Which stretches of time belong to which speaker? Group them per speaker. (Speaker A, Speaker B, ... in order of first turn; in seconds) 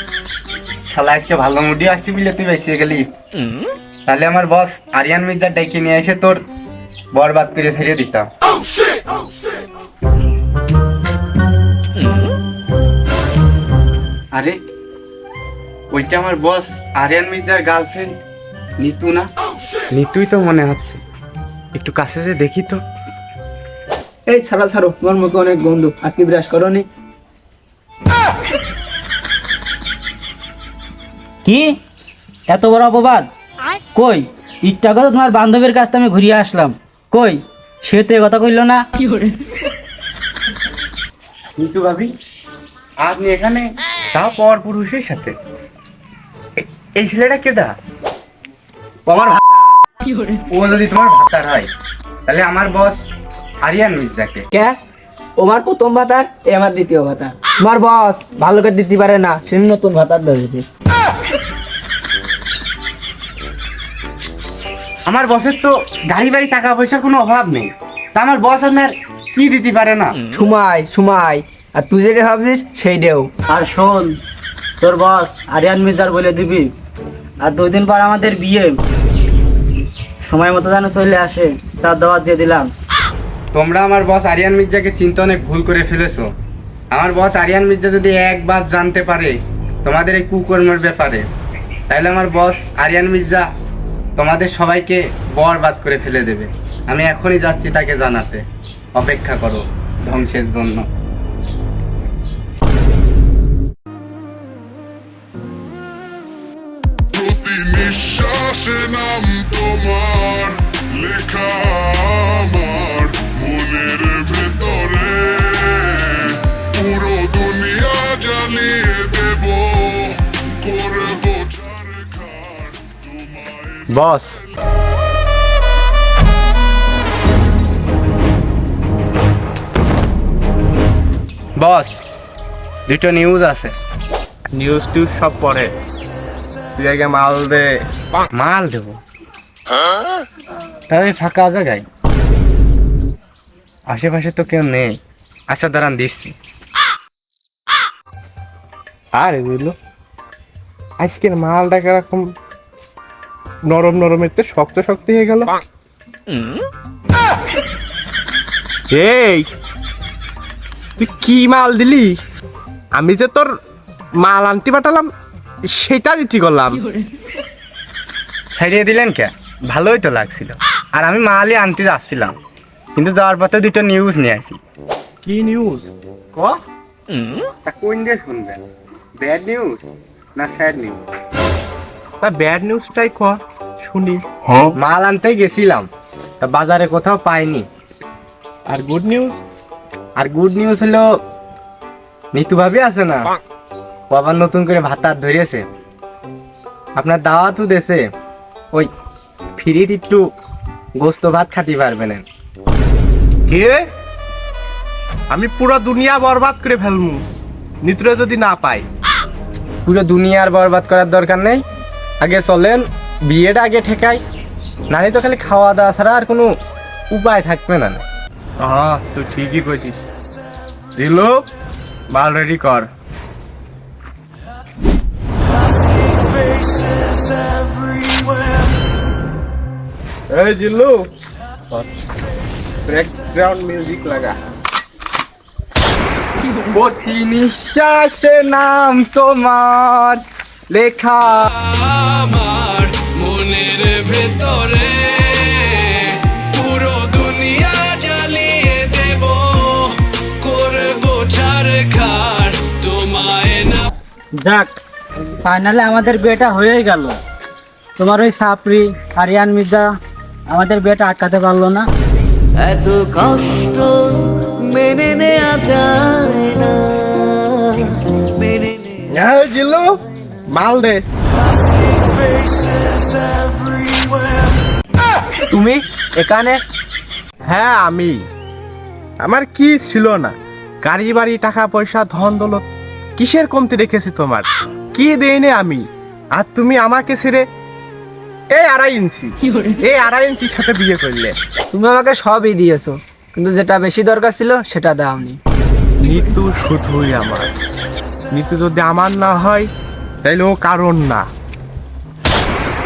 Speaker A: 0.9-3.0, 4.1-6.4, 7.1-8.3, 15.9-18.2, 18.8-19.3, 19.9-21.0, 21.7-22.8, 41.6-42.1, 43.0-45.3, 46.9-47.8, 49.1-49.6, 50.5-51.7, 52.3-53.0, 53.6-54.4, 65.1-70.2, 83.5-86.3, 86.9-91.3, 91.9-93.5, 94.2-98.4, 99.0-100.9, 123.9-124.4, 131.6-132.0, 132.9-133.7, 138.3-139.0, 140.9-141.8, 143.9-145.0, 145.5-146.3, 168.5-172.3, 172.9-174.6, 177.6-178.6, 179.2-181.1, 184.7-185.9, 186.4-187.7, 190.2-191.0, 192.3-193.3, 194.1-195.6, 196.9-198.0, 199.6-200.2, 201.0-202.2, 209.8-211.6, 212.2-214.2, 214.9-216.5, 217.1-218.0, 222.1-222.9, 236.7-241.5
Speaker B: 24.3-26.9, 54.5-54.8, 55.4-60.6, 70.3-73.3, 275.5-276.6, 291.7-295.4
Speaker C: 31.4-31.8, 32.5-33.3, 33.9-38.8, 73.5-74.2, 74.8-76.7, 77.4-78.8, 80.2-82.7, 254.4-254.7, 255.4-257.2, 258.0-259.9, 260.5-261.9
Speaker D: 107.1-123.8
Speaker E: 134.5-135.7, 136.8-137.7, 149.1-149.8, 151.0-152.3, 153.7-155.5, 158.9-159.5, 161.0-162.2, 162.9-163.5, 164.2-165.1, 165.7-166.9, 175.2-175.9, 182.2-184.2, 188.7-189.4, 203.5-203.8, 205.3-207.2, 207.8-208.8, 218.6-220.0, 220.9-221.4, 230.3-231.1, 232.8-234.4, 269.1-271.0, 277.4-278.3, 279.2-287.4, 288.5-291.4, 296.0-297.5, 298.3-299.7, 300.2-301.3
Speaker F: 241.5-253.9
Speaker G: 262.6-267.4, 268.4-269.0